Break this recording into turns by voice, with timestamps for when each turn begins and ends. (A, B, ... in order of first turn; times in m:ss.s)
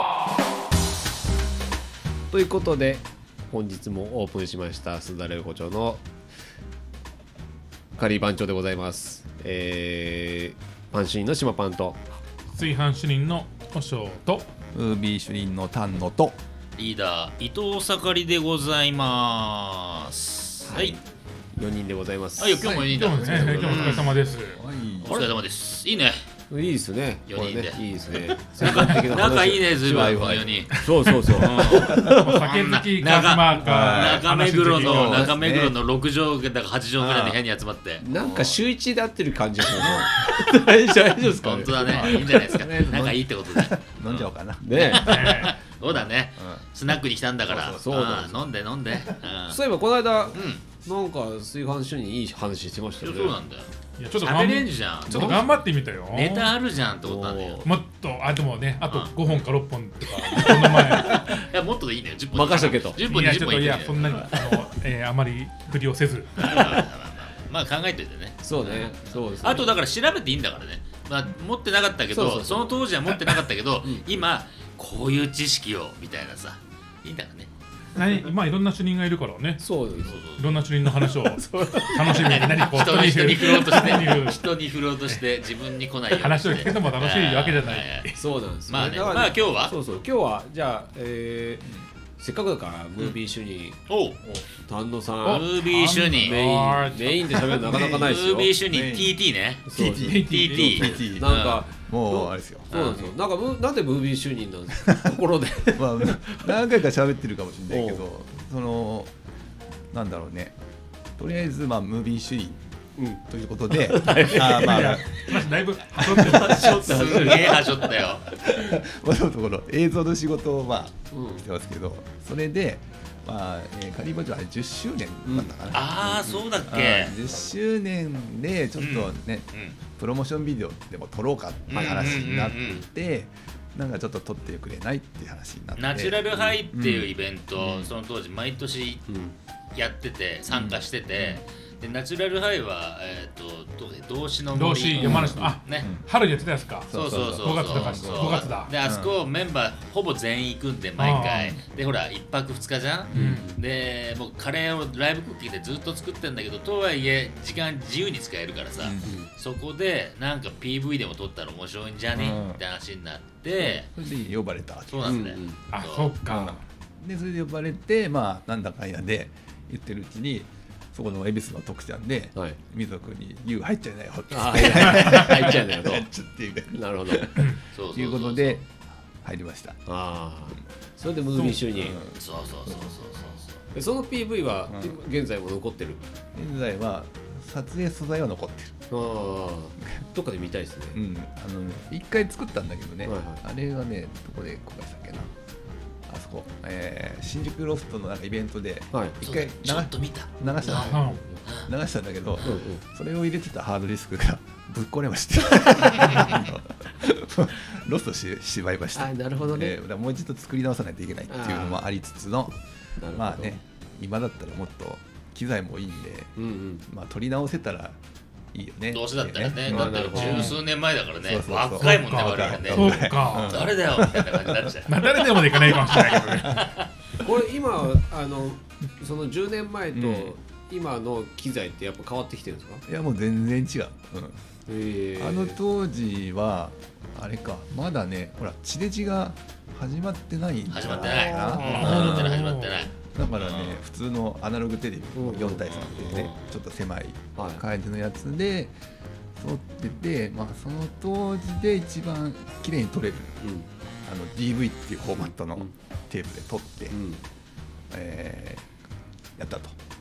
0:02.3-0:06.0 A
0:08.0-0:12.0 A
0:12.5-0:14.5 B
0:14.7-0:16.4 C
0:16.8-0:21.0 D
0:20.6-0:21.0 A
0:21.5-0:22.6 A
0:22.4-0:24.2 D
0:22.6-0:25.2 C
0:22.7-0:24.6 B
0:25.0-0:25.3 A
0:25.0-0:26.2 D
0:26.5-0:32.4 A
0:27.2-0:30.8 D
0:29.9-0:30.6 C
0:31.3-0:38.0 D
0:31.6-0:35.3 B
0:31.7-0:32.1 C
0:33.6-0:35.8 C
0:37.0-0:37.4 C
0:38.0-0:38.6 C
0:38.0-0:43.0 A
0:39.6-0:40.2 C
0:41.2-0:49.6 D
0:41.7-0:44.7 C
0:44.6-0:45.2 A
0:45.0-0:45.6 B
0:45.8-0:46.6 C
0:47.4-0:47.9 C
0:47.7-0:48.5 A
0:48.9-0:49.2 C
0:49.5-0:53.4 A
0:50.3-0:50.6 D
0:53.0-0:55.5 D
0:54.0-0:56.5 B
0:55.1-0:55.4 A
0:56.1-0:57.6 D
0:57.0-0:57.7 A
0:57.6-1:01.2 B
0:58.9-0:59.3 D
1:00.3-1:04.4 D
1:00.7-1:01.3 A
1:02.3-1:03.0 A
1:03.0-1:06.8 B
1:06.4-1:17.5 D
1:08.4-1:09.8 A
1:12.1-1:12.8 A
1:17.9-1:19.6 B
1:19.6-1:20.2 A
1:20.0-1:20.6 D
1:20.4-1:24.5 B
1:20.8-1:22.6 A
1:22.1-1:28.1 D
1:26.1-1:28.2 B
1:28.2-1:31.7 A
1:28.7-1:29.7 D
1:32.2-1:33.8 A
1:33.9-1:34.2 D
1:34.6-1:35.5 A
1:35.2-1:37.8 B
1:35.2-1:36.9 D
1:36.1-1:38.6 A
1:37.6-1:38.1 C
1:37.7-1:41.6 D
1:38.6-1:39.2 C
1:39.7-1:40.3 A
1:39.7-1:42.7 C
1:40.1-1:41.0 B
1:41.0-1:46.6 A
1:42.7-1:43.1 D
1:45.7-1:49.1 C
1:47.7-1:48.0 A
1:49.9-1:50.6 C
1:51.2-1:52.6 C
1:53.0-1:55.0 A
1:53.2-1:55.2 C
1:54.4-1:57.1 B
1:56.0-1:58.7 A
1:56.3-1:58.2 D
1:58.4-2:17.9 C
2:01.1-2:01.4 A
2:05.2-2:06.4 A
2:05.7-2:07.1 D
2:08.8-2:09.8 D
2:11.7-2:12.8 D
2:11.7-2:12.4 A
2:15.8-2:19.0 D
2:19.1-2:19.3 A
2:19.7-2:25.9 D
2:20.5-2:21.4 C
2:24.5-2:28.7 B
2:25.0-2:26.1 C
2:26.9-2:29.1 C
2:26.9-2:43.9 D
2:31.0-2:31.5 B
2:33.1-2:33.5 B
2:33.1-2:33.4 C
2:33.1-2:33.6 A
2:38.8-2:39.2 C
2:39.0-2:39.3 A
2:42.1-2:42.6 C
2:43.6-2:45.3 C
2:44.9-2:46.2 D
2:45.0-2:45.6 A
2:45.7-2:46.6 B
2:46.3-2:58.7 C
2:54.3-2:56.1 A
2:56.7-2:57.3 A
2:57.7-2:58.6 D
2:59.2-2:59.8 C
2:59.8-3:02.0 A
3:01.4-3:01.6 B
3:01.7-3:03.3 C
3:02.1-3:03.6 D
3:03.7-3:06.0 A
3:04.7-3:05.0 C
3:06.3-3:08.9 C
3:08.9-3:11.0 A
3:09.8-3:10.1 C
3:10.9-3:15.3 C
3:13.0-3:13.4 A
3:16.1-3:38.0 C
3:18.9-3:19.2 A
3:19.2-3:21.7 D
3:20.6-3:21.4 A
3:20.9-3:21.2 B
3:22.4-3:22.8 A
3:26.0-3:26.4 D
3:28.9-3:29.8 A
3:31.3-3:31.8 A
3:33.0-3:33.5 A
3:36.4-3:36.8 A
3:38.5-3:40.6 C
3:38.9-3:46.8 D
3:39.7-3:40.6 A
3:40.1-3:40.6 B
3:41.2-3:44.7 C
3:41.8-3:43.7 B
3:44.9-3:46.6 B
3:47.2-3:52.8 A
3:49.9-3:50.3 C
3:52.9-3:54.4 C
3:54.7-3:55.6 A
3:55.2-4:02.5 C
4:00.7-4:03.8 D
4:01.0-4:02.2 A
4:01.6-4:02.8 B
4:03.1-4:08.8 C
4:05.1-4:06.3 A
4:05.6-4:06.6 D
4:07.4-4:07.6 A
4:09.4-4:13.4 C
4:13.4-4:13.7 A
4:14.0-4:17.0 C
4:15.3-4:15.7 A
4:16.9-4:17.2 A
4:17.9-4:18.7 C
4:19.4-4:19.8 C